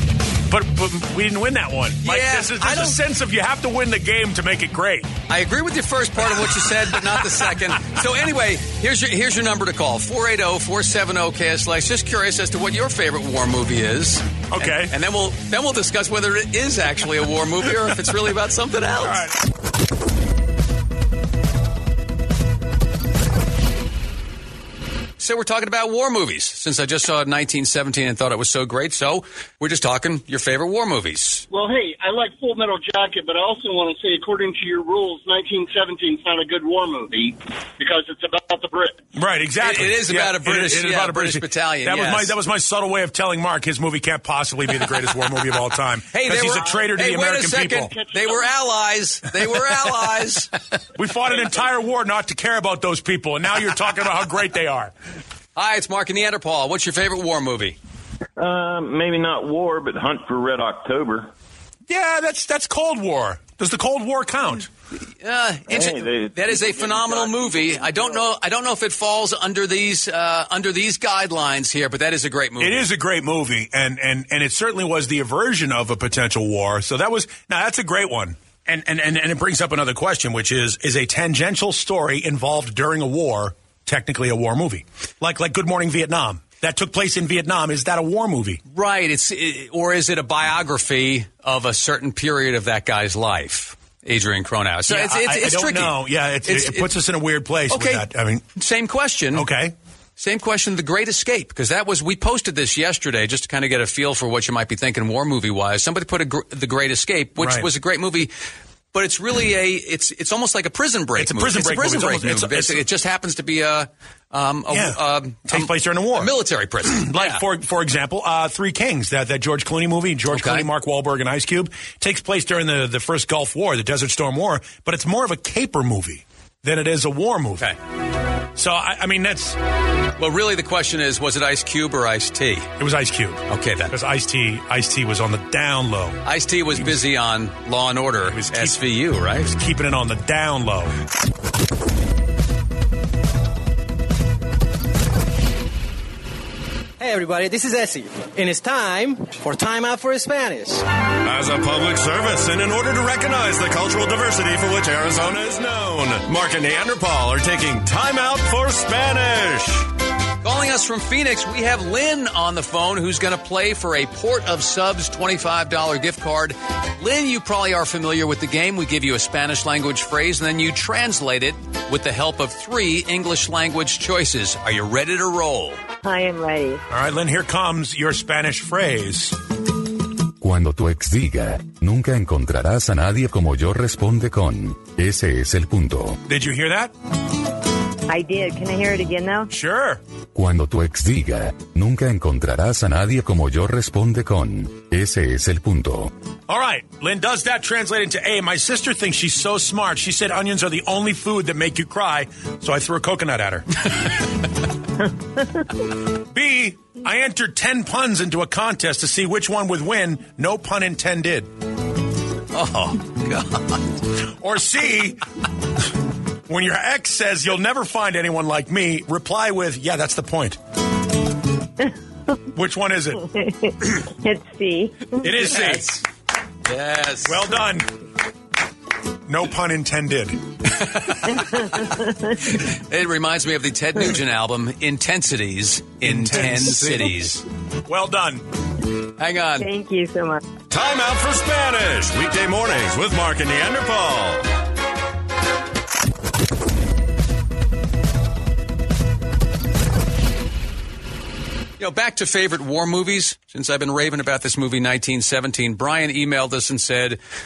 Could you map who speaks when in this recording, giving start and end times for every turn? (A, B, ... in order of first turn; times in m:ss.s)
0:00.5-0:05.1 A
0:02.0-0:03.0 B
0:05.3-0:19.2 B
0:14.5-0:14.9 A
0:19.0-0:19.4 A
0:25.2-0:31.4 B
0:31.5-0:39.0 C
0:39.1-0:47.9 A
0:39.6-0:42.3 B
0:46.1-0:50.5 B
0:47.9-0:48.5 C
0:51.0-0:54.9 A
0:55.6-0:57.8 B
0:58.4-1:01.3 D
1:01.9-1:04.7 A
1:05.2-1:12.9 B
1:05.7-1:08.0 D
1:12.6-1:28.6 A
1:28.7-1:36.9 B
1:34.9-1:38.4 A
1:37.7-1:38.0 B
1:38.6-1:39.5 B
1:39.3-1:39.7 A
1:40.2-1:48.3 B
1:47.4-1:47.7 A
1:48.9-1:57.4 B
1:51.2-1:52.8 A
1:54.7-1:56.3 A
1:56.9-2:07.7 A
2:00.3-2:00.7 B
2:08.6-2:09.6 A
2:10.2-2:12.7 B
2:12.8-2:16.2 A
2:13.5-2:13.9 B
2:16.2-2:19.5 B
2:16.7-2:17.0 A
2:18.2-2:18.8 A
2:19.4-2:20.9 A
2:27.0-2:30.8 E
2:31.2-2:39.8 F
2:40.4-2:55.8 B
2:56.0-2:56.8 G
2:56.9-2:59.4 A
3:00.4-3:06.2 H
3:06.3-3:06.9 A
3:08.1-3:09.5 G
3:09.5-3:10.0 A
3:10.3-3:16.1 H
3:16.5-3:23.8 A
3:26.3-3:31.5 A
3:32.5-3:33.8 B
3:34.4-3:35.2 A
3:36.5-3:40.6 A
3:42.5-3:43.2 A
3:43.4-3:45.2 G
3:45.2-3:46.0 A
3:45.3-3:46.0 B
3:46.6-3:47.4 B
3:47.2-3:47.9 A
3:49.3-3:50.4 A
3:50.7-3:51.2 B
3:52.5-3:57.4 B
3:56.1-3:57.1 A
3:57.9-3:58.4 A
3:59.2-3:59.7 B
3:59.6-4:00.4 G
4:00.7-4:04.4 F
4:11.8-4:17.2 B